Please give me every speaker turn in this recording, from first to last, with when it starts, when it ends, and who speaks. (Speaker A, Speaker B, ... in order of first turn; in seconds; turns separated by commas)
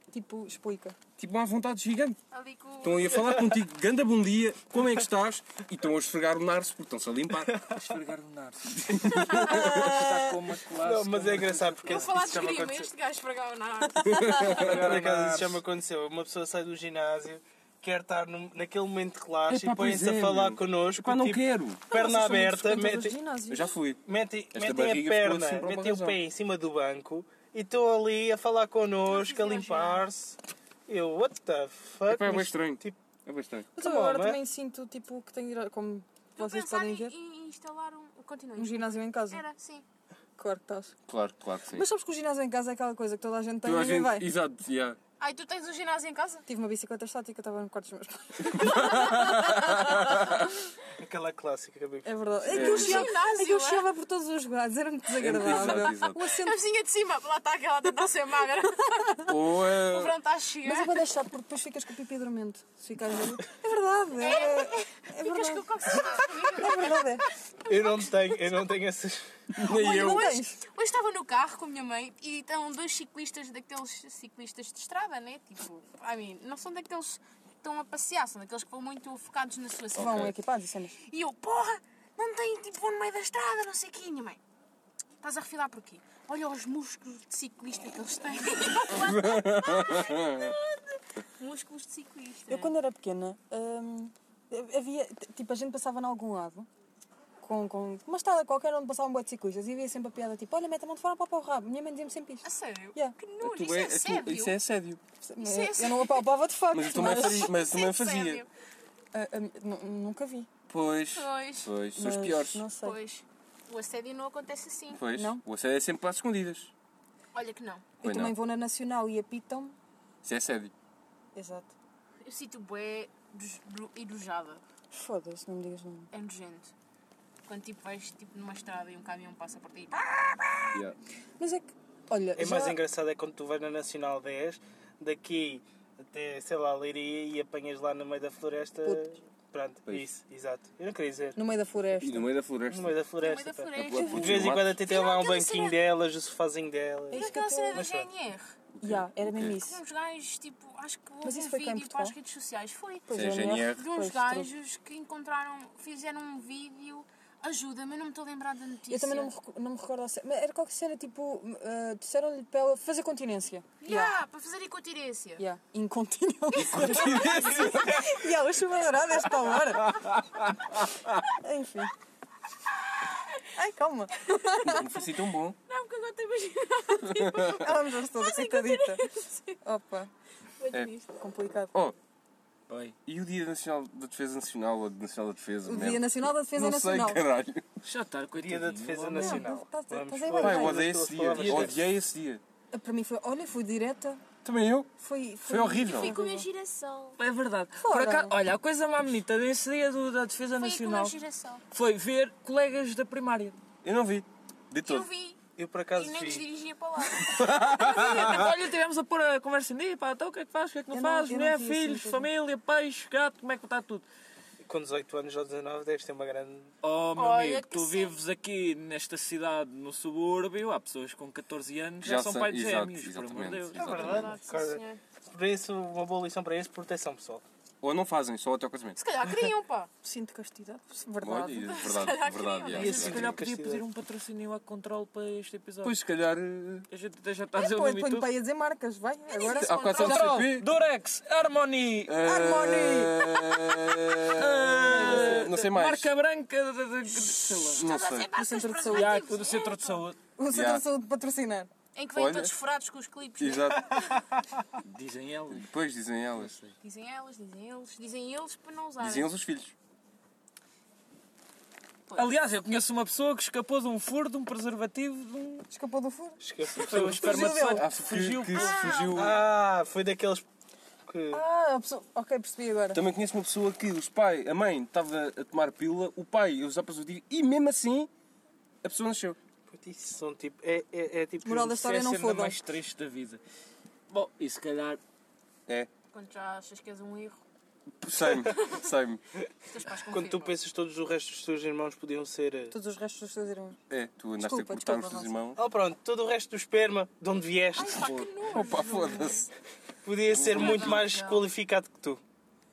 Speaker A: 0.1-0.9, Speaker B: 1.2-2.2, Speaker C: 2.3-3.3, Speaker B: 2.8-7.5, Speaker D: 7.7-12.1, Speaker B: 8.8-9.7, Speaker A: 9.3-10.4, Speaker E: 10.8-12.9, Speaker C: 11.8-14.8, Speaker B: 14.0-15.6, Speaker A: 14.1-14.6, Speaker E: 14.6-23.2, Speaker B: 19.5-21.8, Speaker A: 21.9-23.8, Speaker B: 23.5-24.0, Speaker E: 24.0-33.0, Speaker B: 24.5-26.2, Speaker C: 29.1-30.0, Speaker B: 32.1-33.7, Speaker E: 33.8-34.4, Speaker A: 33.8-37.1, Speaker C: 36.4-39.8, Speaker A: 38.5-39.4, Speaker A: 40.4-40.9, Speaker B: 41.1-41.9, Speaker A: 41.7-44.3, Speaker B: 43.6-45.0, Speaker C: 45.2-46.4, Speaker A: 46.5-50.2, Speaker B: 48.5-50.3, Speaker E: 51.0-52.8, Speaker A: 52.0-56.6, Speaker B: 52.5-53.1, Speaker C: 52.7-53.9, Speaker B: 55.1-56.2, Speaker C: 55.6-61.0, Speaker B: 59.3-60.2, Speaker A: 60.6-67.2, Speaker C: 64.2-68.6, Speaker E: 67.7-69.2, Speaker B: 69.5-70.3, Speaker A: 69.6-70.6, Speaker C: 69.9-80.3, Speaker B: 80.0-80.3, Speaker A: 80.0-81.0, Speaker C: 80.9-84.4, Speaker C: 85.2-92.7, Speaker B: 88.9-90.5, Speaker A: 92.5-96.7, Speaker A: 97.4-103.2, Speaker C: 102.4-104.6, Speaker B: 103.4-105.0, Speaker A: 105.2-107.5, Speaker C: 105.4-106.3, Speaker B: 106.7-108.4, Speaker C: 107.0-108.5, Speaker A: 109.1-110.5, Speaker B: 110.7-112.6, Speaker C: 111.1-111.7, Speaker A: 111.9-113.0, Speaker C: 112.7-115.0, Speaker B: 114.9-116.7, Speaker A: 115.1-115.4, Speaker C: 117.3-117.9, Speaker A: 118.0-119.7, Speaker B: 118.0-118.3, Speaker B: 120.2-120.7, Speaker A: 121.3-121.7, Speaker C: 122.2-124.6, Speaker A: 124.9-126.1, Speaker C: 126.1-126.7, Speaker C: 127.5-129.9, Speaker A: 130.0-130.8, Speaker A: 131.4-132.8, Speaker E: 132.3-141.4, Speaker A: 141.3-142.3, Speaker B: 142.0-142.9, Speaker E: 142.7-148.1, Speaker C: 143.2-144.3, Speaker B: 143.7-144.8, Speaker A: 143.8-144.4, Speaker C: 144.8-145.8, Speaker A: 147.1-147.8, Speaker C: 147.1-148.5, Speaker B: 148.8-149.6, Speaker A: 148.8-149.8, Speaker C: 149.6-153.1, Speaker A: 151.2-152.2, Speaker A: 153.1-154.5, Speaker B: 153.1-153.8, Speaker C: 153.8-159.3, Speaker A: 158.9-164.1, Speaker C: 163.8-165.4, Speaker A: 165.4-170.0, Speaker B: 166.5-168.1, Speaker C: 166.7-168.0, Speaker B: 169.9-170.5, Speaker A: 171.3-171.9, Speaker A: 173.5-175.0, Speaker B: 174.6-175.6, Speaker C: 175.7-179.6, Speaker A: 177.5-179.0, Speaker A: 179.6-180.1, Speaker C: 180.6-181.2, Speaker A: 181.2-181.7, Speaker D: 182.7-182.9, Speaker B: 183.1-187.7, Speaker A: 185.6-187.2, Speaker D: 187.8-189.4, Speaker E: 188.3-191.8, Speaker A: 189.1-190.9, Speaker B: 190.3-192.4, Speaker D: 191.3-191.8, Speaker A: 192.7-194.2, Speaker B: 194.4-194.9, Speaker A: 195.0-196.5, Speaker B: 195.4-196.2, Speaker C: 195.9-197.2, Speaker D: 197.2-201.1, Speaker A: 197.8-198.3, Speaker C: 200.6-201.6, Speaker D: 201.7-203.6, Speaker B: 203.8-205.1, Speaker C: 204.8-205.4, Speaker E: 205.6-206.4, Speaker C: 205.9-208.0, Speaker B: 207.2-208.4, Speaker D: 207.8-214.1, Speaker A: 210.9-212.3, Speaker E: 214.6-216.7, Speaker D: 216.8-224.3, Speaker C: 217.2-218.2, Speaker B: 222.0-224.3, Speaker C: 223.8-225.0, Speaker E: 223.8-227.4, Speaker B: 227.8-229.0, Speaker C: 228.9-229.9, Speaker A: 230.0-231.9, Speaker B: 231.2-233.4, Speaker C: 231.6-233.1, Speaker D: 232.7-235.9, Speaker E: 232.7-233.9, Speaker B: 235.8-236.9, Speaker D: 236.9-238.3, Speaker A: 237.6-240.0, Speaker C: 239.3-240.4, Speaker B: 239.5-240.7, Speaker D: 239.9-242.2, Speaker B: 242.1-246.1, Speaker A: 242.2-243.2, Speaker D: 244.2-247.9, Speaker A: 244.9-245.5, Speaker C: 247.2-250.0, Speaker B: 247.7-248.3, Speaker A: 248.3-249.2, Speaker D: 248.9-250.2, Speaker A: 250.4-251.7, Speaker B: 250.5-250.8, Speaker C: 251.9-254.1, Speaker B: 252.1-252.5, Speaker B: 253.4-254.0, Speaker D: 254.8-255.7, Speaker B: 255.5-256.6, Speaker D: 256.3-256.7, Speaker C: 256.8-259.3, Speaker B: 259.0-259.7, Speaker D: 262.2-265.7, Speaker A: 265.7-266.4, Speaker E: 266.4-267.5, Speaker D: 266.7-269.0, Speaker B: 267.2-269.4, Speaker A: 267.4-267.9, Speaker C: 268.5-269.2, Speaker E: 269.1-270.4, Speaker E: 271.1-271.4, Speaker A: 271.3-273.0, Speaker B: 272.9-278.1, Speaker B: 278.8-279.4, Speaker E: 279.7-281.7, Speaker A: 281.4-282.6, Speaker D: 281.7-283.4, Speaker D: 284.1-285.0, Speaker C: 286.1-287.4, Speaker B: 288.0-289.2, Speaker C: 288.4-288.8, Speaker C: 289.7-290.5, Speaker E: 290.1-292.7, Speaker A: 292.7-293.8, Speaker B: 293.9-295.6, Speaker A: 294.4-295.5, Speaker E: 295.6-298.0, Speaker C: 297.8-299.5, Speaker B: 297.9-299.5, Speaker E: 300.0-302.2, Speaker B: 300.3-301.0, Speaker C: 300.5-301.5